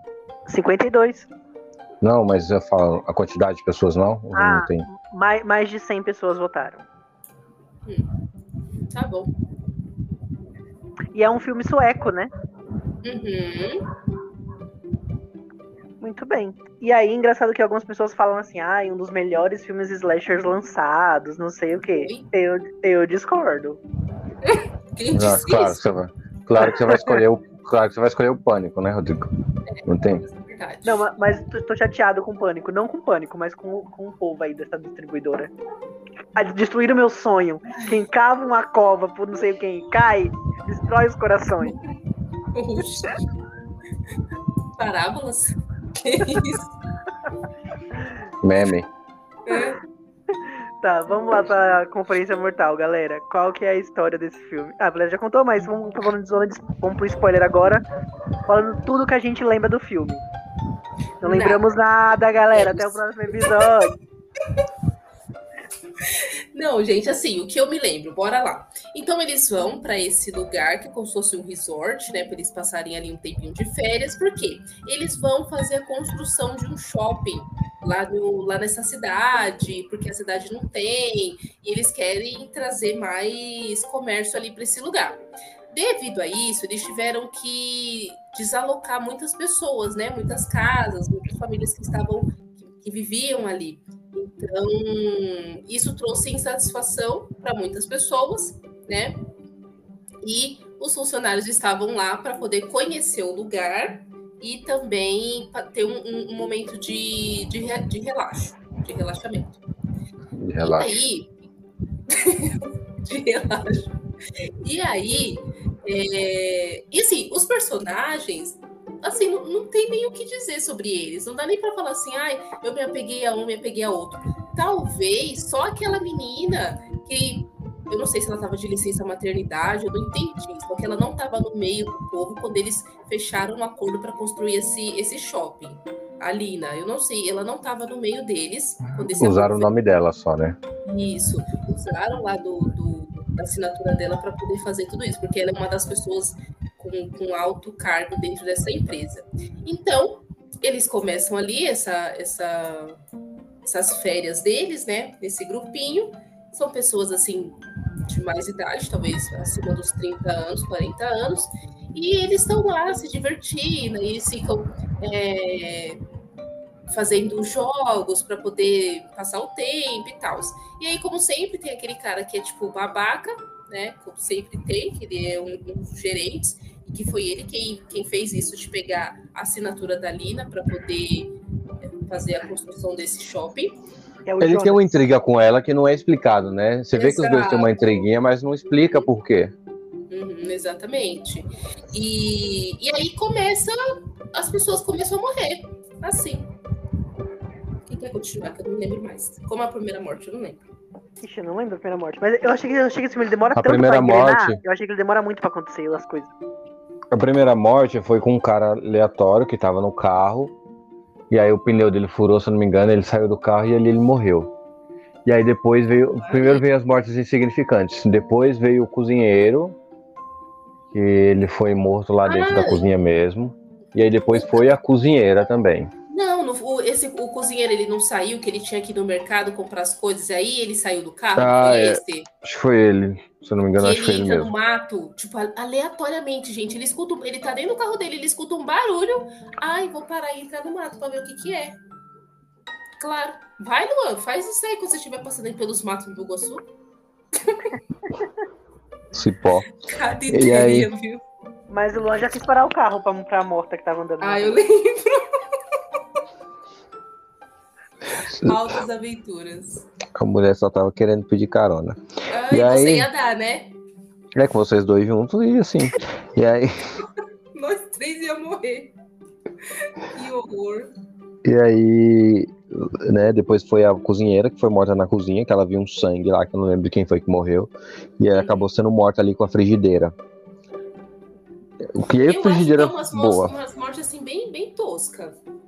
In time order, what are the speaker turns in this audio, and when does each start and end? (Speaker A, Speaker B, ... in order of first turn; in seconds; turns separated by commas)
Speaker A: 0.5-1.3, Speaker B: 2.0-4.9, Speaker A: 4.3-6.8, Speaker C: 8.9-9.3, Speaker A: 11.1-12.3, Speaker C: 13.0-13.9, Speaker A: 16.0-23.8, Speaker C: 21.9-22.3, Speaker C: 24.4-25.9, Speaker B: 25.1-29.3, Speaker C: 29.7-31.0, Speaker B: 29.9-30.2, Speaker A: 30.9-35.5, Speaker A: 36.4-41.8, Speaker C: 41.7-42.0, Speaker C: 42.5-43.3, Speaker C: 44.8-46.7, Speaker B: 48.4-48.9, Speaker C: 49.5-49.8, Speaker A: 50.3-57.9, Speaker A: 58.5-60.2, Speaker C: 61.2-61.6, Speaker A: 61.2-63.9, Speaker C: 62.5-63.6, Speaker C: 66.0-85.2, Speaker C: 85.7-99.2, Speaker C: 100.2-109.6, Speaker B: 110.4-111.0, Speaker C: 110.6-111.3, Speaker C: 112.1-113.9, Speaker C: 114.6-139.8, Speaker B: 139.1-140.6, Speaker C: 140.8-153.0, Speaker C: 153.6-166.0, Speaker C: 166.9-181.3, Speaker C: 181.9-183.8, Speaker A: 184.3-184.8, Speaker B: 184.4-189.5, Speaker C: 187.0-188.1, Speaker C: 188.7-189.1, Speaker C: 190.1-196.5, Speaker C: 197.9-200.6, Speaker A: 201.2-206.3, Speaker B: 203.5-204.6, Speaker B: 207.1-210.5, Speaker B: 211.3-214.5, Speaker B: 215.2-219.8, Speaker C: 216.1-216.7, Speaker B: 220.9-225.9, Speaker C: 222.2-222.9, Speaker C: 224.4-224.7, Speaker C: 226.1-232.3, Speaker B: 231.3-234.5, Speaker C: 233.8-241.8, Speaker C: 243.0-246.7, Speaker C: 247.4-247.8, Speaker B: 249.1-249.7, Speaker C: 249.7-251.2, Speaker B: 250.3-250.9, Speaker A: 251.7-254.6, Speaker C: 254.2-255.6, Speaker B: 258.2-258.7, Speaker C: 258.4-259.9, Speaker B: 260.2-262.0, Speaker C: 262.3-263.7, Speaker B: 262.5-263.1, Speaker B: 264.4-267.0, Speaker C: 267.5-268.9, Speaker C: 269.8-270.9, Speaker B: 271.4-280.1, Speaker C: 278.3-278.6, Speaker B: 281.8-283.5, Speaker C: 282.2-285.4